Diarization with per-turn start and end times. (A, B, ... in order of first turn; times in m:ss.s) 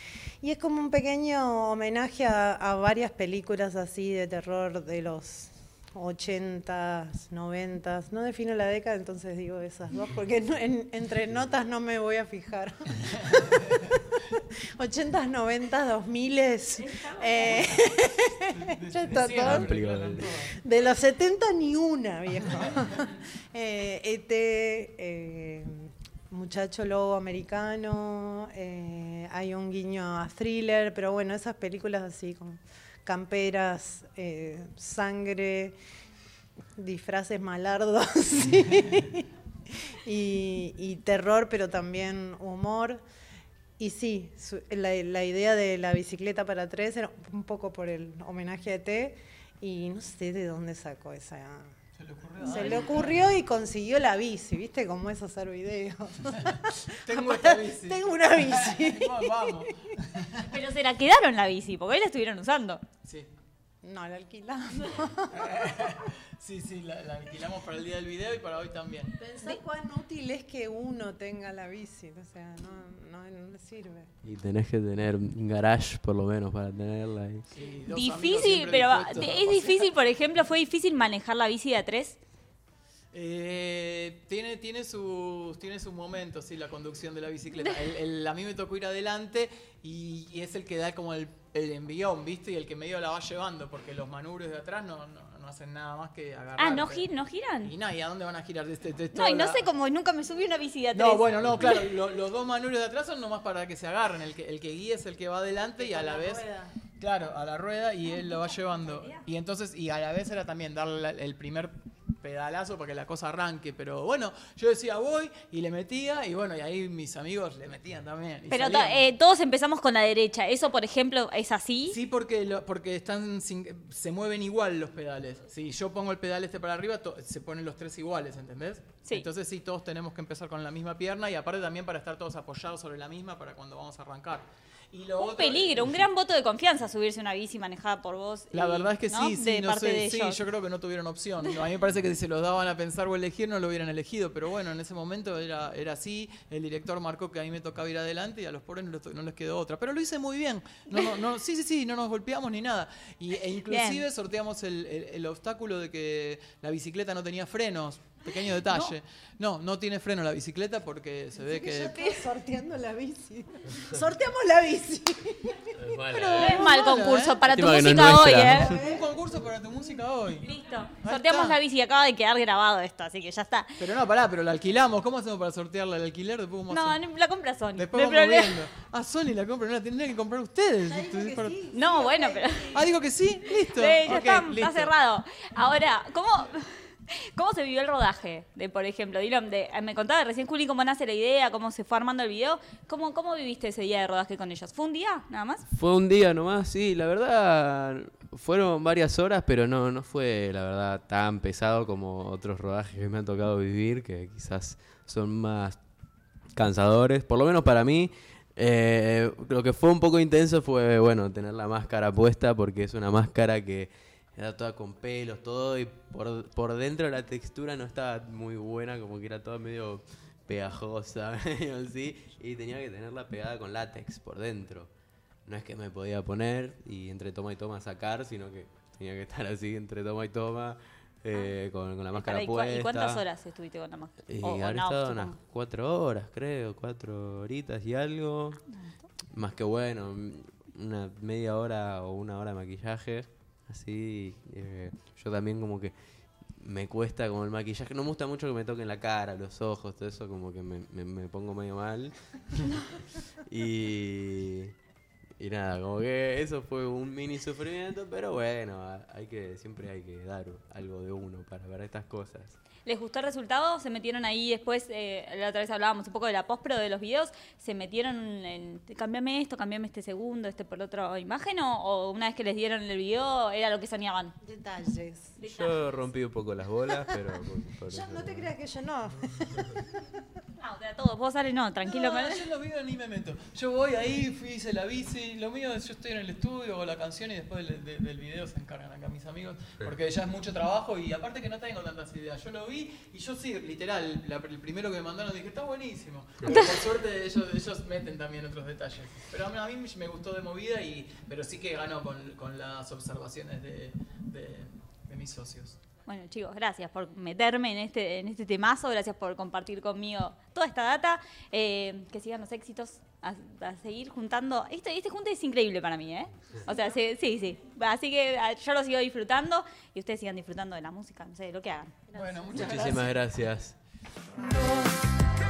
0:00.4-0:19.7 A
0:18.5-0:20.6 B
0:19.4-0:20.3 C
0:20.5-0:35.8 A
0:36.8-0:39.3 A
0:40.0-0:43.0 A
0:43.8-0:51.7 A
0:52.0-0:53.2 B
0:52.4-0:59.7 A
0:52.5-0:52.8 D
0:57.0-1:00.4 B
1:00.5-1:02.8 D
1:03.0-1:03.3 B
1:03.8-1:05.5 A
1:05.3-1:09.2 B
1:09.2-1:14.1 A
1:14.2-1:17.4 C
1:17.5-1:19.9 B
1:17.9-1:22.2 D
1:23.1-1:37.1 B
1:36.6-1:37.7 D
1:37.6-1:39.6 B
1:39.1-1:41.9 D
1:40.9-1:46.4 B
1:45.8-1:46.7 A
1:47.0-1:59.0 B
1:48.1-1:49.2 D
1:58.5-2:02.0 D
2:01.9-2:16.0 B
2:15.2-2:20.4 D
2:18.5-2:42.2 B
2:33.7-2:34.0 D
2:38.6-2:38.9 D
2:41.4-2:46.5 A
2:45.8-2:46.6 C
2:46.1-2:50.5 B
2:46.3-2:48.7 D
2:47.4-2:48.8 C
2:50.4-2:53.8 D
2:51.0-2:51.6 B
2:53.8-2:57.0 B
2:56.7-2:58.6 D
2:57.8-3:01.6 B
3:00.8-3:02.8 A
3:01.7-3:02.8 D
3:02.7-3:04.9 B
3:03.7-3:15.6 D
3:15.7-3:25.8 C
3:26.6-3:44.9 C
3:45.4-3:53.2 C
3:52.1-3:55.4 D
3:54.3-3:58.6 C
3:58.7-3:59.0 D
3:59.3-4:05.9 C
4:06.6-4:12.8 C
4:13.4-4:14.7 C
4:15.4-4:22.6 C
4:22.8-4:34.3 D
4:34.4-4:35.4 A
4:35.4-4:35.8 D
4:35.5-4:38.5 C
4:37.9-4:40.1 A
4:40.6-4:42.4 D
4:41.8-5:05.8 B
5:06.1-5:22.1 D
5:22.1-5:23.2 B
5:22.5-5:23.8 C
5:24.4-5:24.9 B